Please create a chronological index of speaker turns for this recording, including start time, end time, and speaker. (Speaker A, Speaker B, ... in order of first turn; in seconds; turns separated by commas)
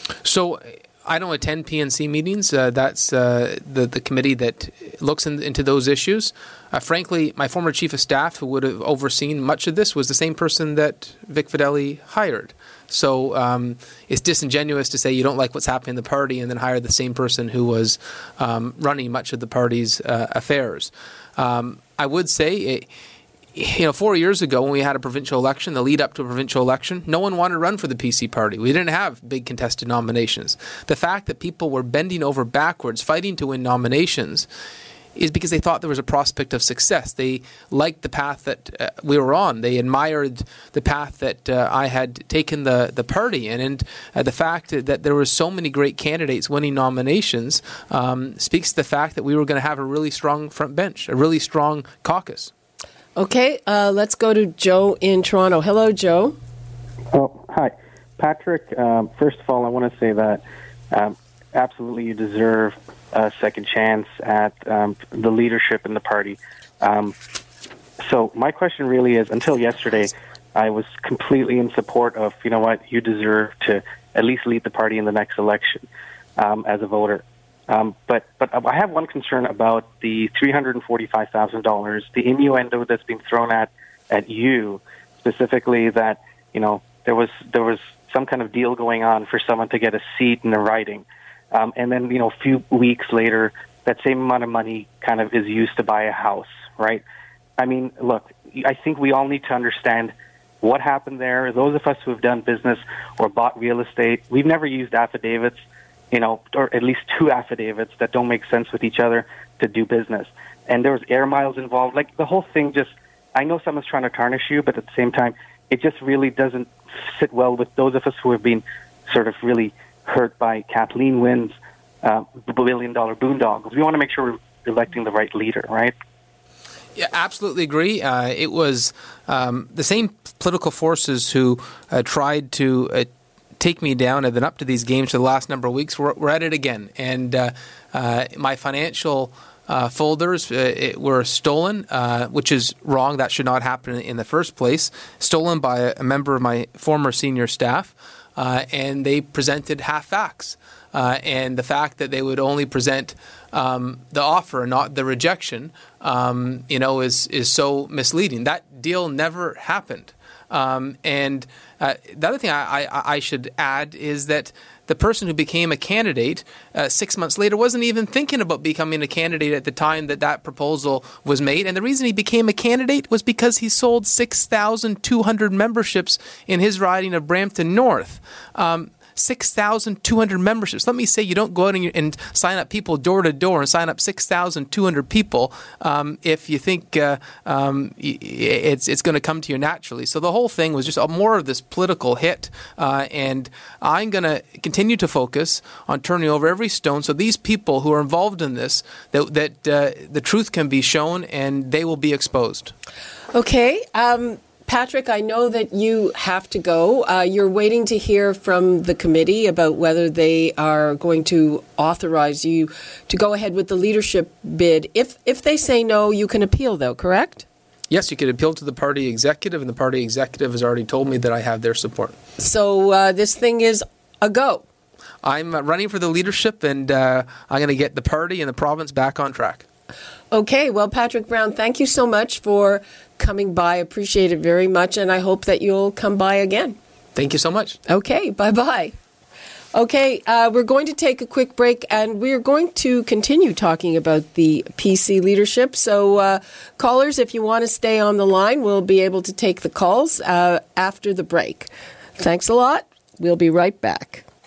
Speaker A: 0.2-22.9, Speaker A: 23.5-34.5, Speaker A: 35.1-52.5, Speaker B: 53.1-56.4, Speaker C: 57.1-67.1, Speaker C: 68.0-75.8, Speaker C: 76.4-97.0, Speaker C: 97.6-125.9, Speaker A: 127.0-202.7, Speaker B: 203.3-217.4, Speaker A: 217.9-222.2, Speaker B: 222.4-224.6, Speaker A: 225.2-229.7, Speaker B: 230.3-236.8, Speaker A: 237.2-237.8, Speaker B: 237.9-238.9, Speaker B: 239.7-254.2